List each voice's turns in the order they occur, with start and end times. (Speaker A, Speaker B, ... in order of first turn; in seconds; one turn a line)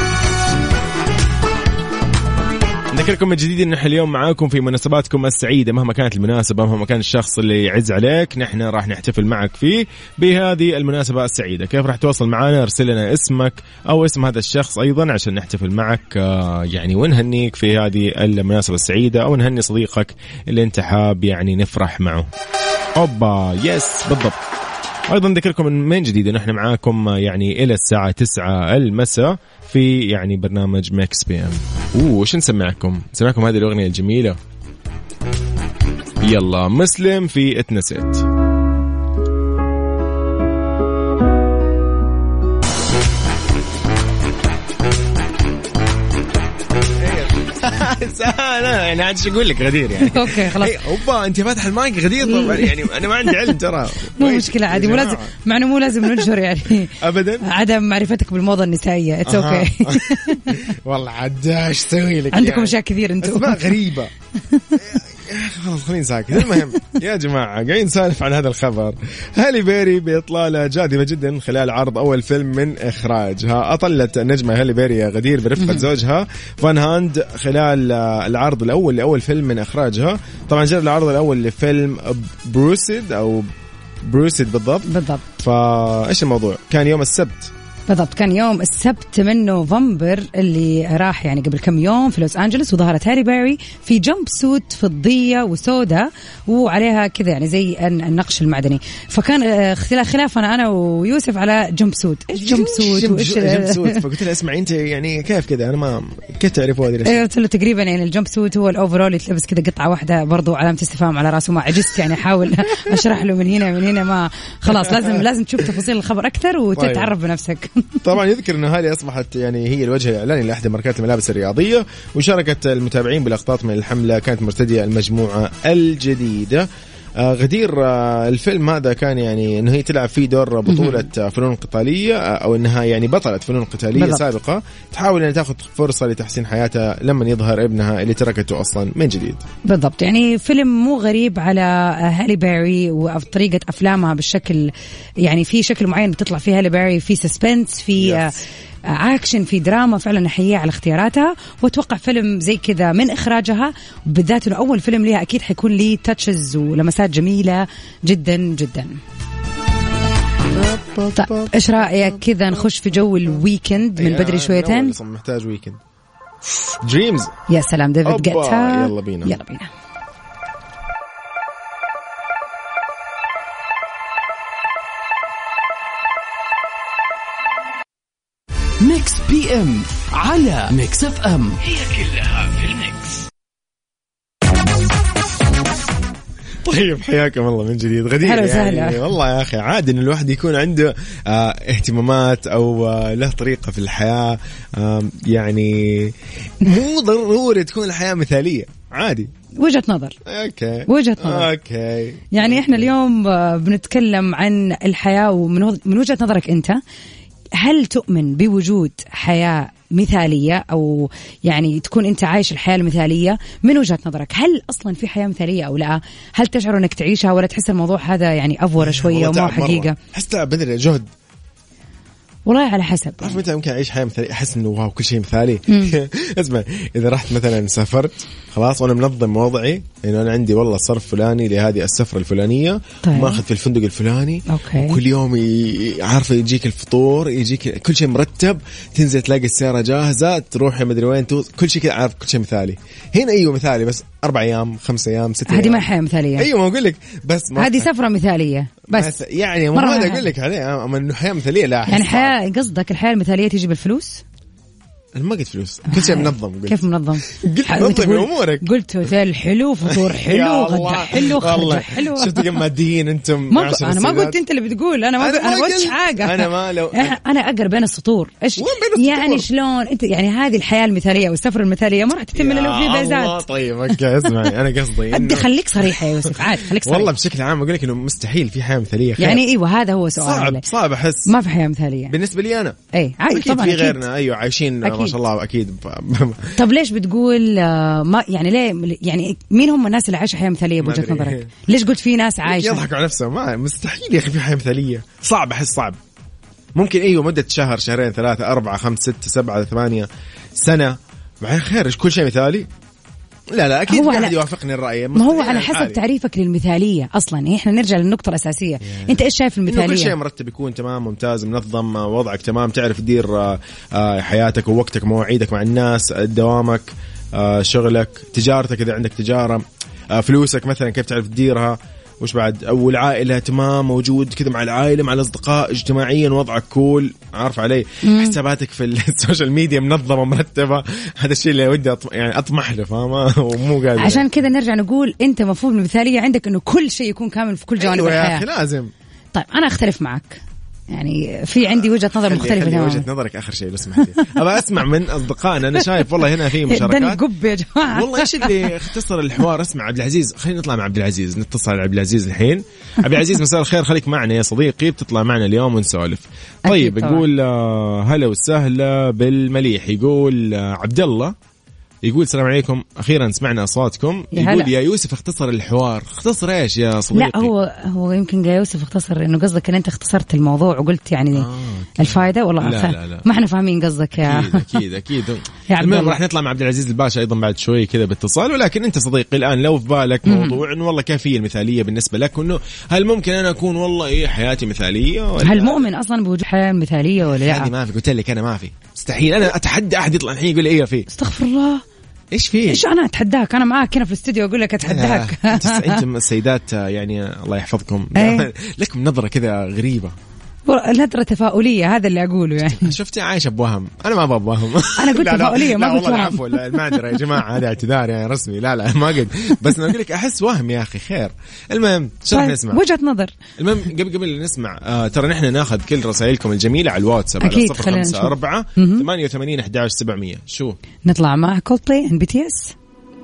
Speaker A: 2.9-22.3
Speaker A: 23.0-24.4
Speaker A: 25.1-34.4
Speaker A: 36.2-38.3
Speaker A: 47.0-55.3
Speaker B: 50.0-50.8
Speaker B: 52.2-53.5
Speaker B: 54.2-60.5
Speaker A: 56.0-56.3
Speaker A: 56.8-57.5
Speaker A: 59.3-64.1
Speaker B: 62.3-63.7
Speaker A: 64.7-83.5
Speaker B: 75.6-75.9
Speaker A: 84.0-84.9
Speaker B: 84.9-85.2
Speaker A: 85.4-87.5
Speaker B: 87.9-104.0
Speaker A: 102.3-107.2
Speaker B: 107.0-118.0
Speaker A: 114.7-115.2
Speaker A: 116.8-117.1
Speaker A: 118.0-126.7
Speaker A: 127.2-139.4
Speaker B: 130.7-131.0
Speaker B: 133.9-134.2
Speaker B: 139.7-159.0
Speaker A: 148.0-148.3
Speaker A: 160.5-162.2
Speaker B: 161.2-164.9
Speaker A: 164.0-165.8
Speaker A: 166.8-167.3
Speaker B: 167.5-169.7
Speaker A: 168.0-169.4
Speaker C: 178.8-183.2
Speaker A: 186.7-199.3
Speaker B: 188.2-189.0
Speaker B: 199.6-200.2
Speaker A: 200.2-202.9
Speaker B: 200.9-201.5
Speaker B: 202.3-206.8
Speaker B: 207.6-220.0
Speaker A: 218.8-221.1
Speaker B: 222.5-223.4
Speaker A: 223.2-245.9
Speaker B: 225.7-225.9
Speaker B: 233.0-233.4
Speaker B: 234.5-235.0
Speaker B: 245.5-246.5
Speaker A: 246.4-247.9
Speaker B: 247.6-249.1
Speaker A: 248.9-252.3
Speaker B: 249.7-250.3
Speaker B: 251.9-254.2
Speaker A: 255.2-258.7
Speaker B: 255.9-262.5
Speaker A: 259.9-264.4
Speaker B: 263.5-273.4
Speaker A: 265.2-267.2
Speaker A: 268.6-269.5
Speaker A: 272.4-279.4
Speaker B: 275.1-277.1
Speaker B: 279.2-280.6
Speaker A: 280.2-281.3
Speaker B: 281.3-282.1
Speaker A: 282.1-282.8
Speaker B: 282.9-284.0
Speaker A: 283.3-286.6
Speaker B: 284.8-285.1
Speaker B: 286.6-292.8
Speaker A: 290.8-291.5
Speaker A: 292.4-296.0
Speaker A: 296.8-302.7
Speaker A: 303.5-306.0
Speaker B: 303.9-304.4
Speaker B: 305.1-310.2
Speaker A: 308.8-334.3
Speaker B: 328.0-328.4
Speaker B: 334.0-338.4
Speaker A: 337.8-338.9
Speaker B: 339.3-343.1
Speaker A: 342.2-347.2
Speaker B: 346.6-348.7
Speaker A: 347.9-361.4
Speaker B: 356.7-357.2
Speaker A: 362.1-367.5
Speaker B: 364.3-364.7
Speaker B: 367.1-371.5
Speaker A: 371.3-373.3
Speaker B: 372.0-374.7
Speaker A: 374.2-385.9
Speaker B: 375.7-376.2
Speaker B: 380.3-380.6
Speaker B: 385.4-387.7
Speaker A: 387.2-391.1
Speaker B: 391.1-391.8
Speaker A: 392.3-392.8
Speaker B: 392.7-396.0
Speaker A: 394.9-400.1
Speaker B: 398.1-398.5
Speaker B: 400.7-402.9
Speaker A: 402.6-412.8
Speaker B: 405.0-407.0
Speaker B: 412.3-413.4
Speaker A: 413.6-420.8
Speaker B: 417.4-419.1
Speaker B: 421.1-422.7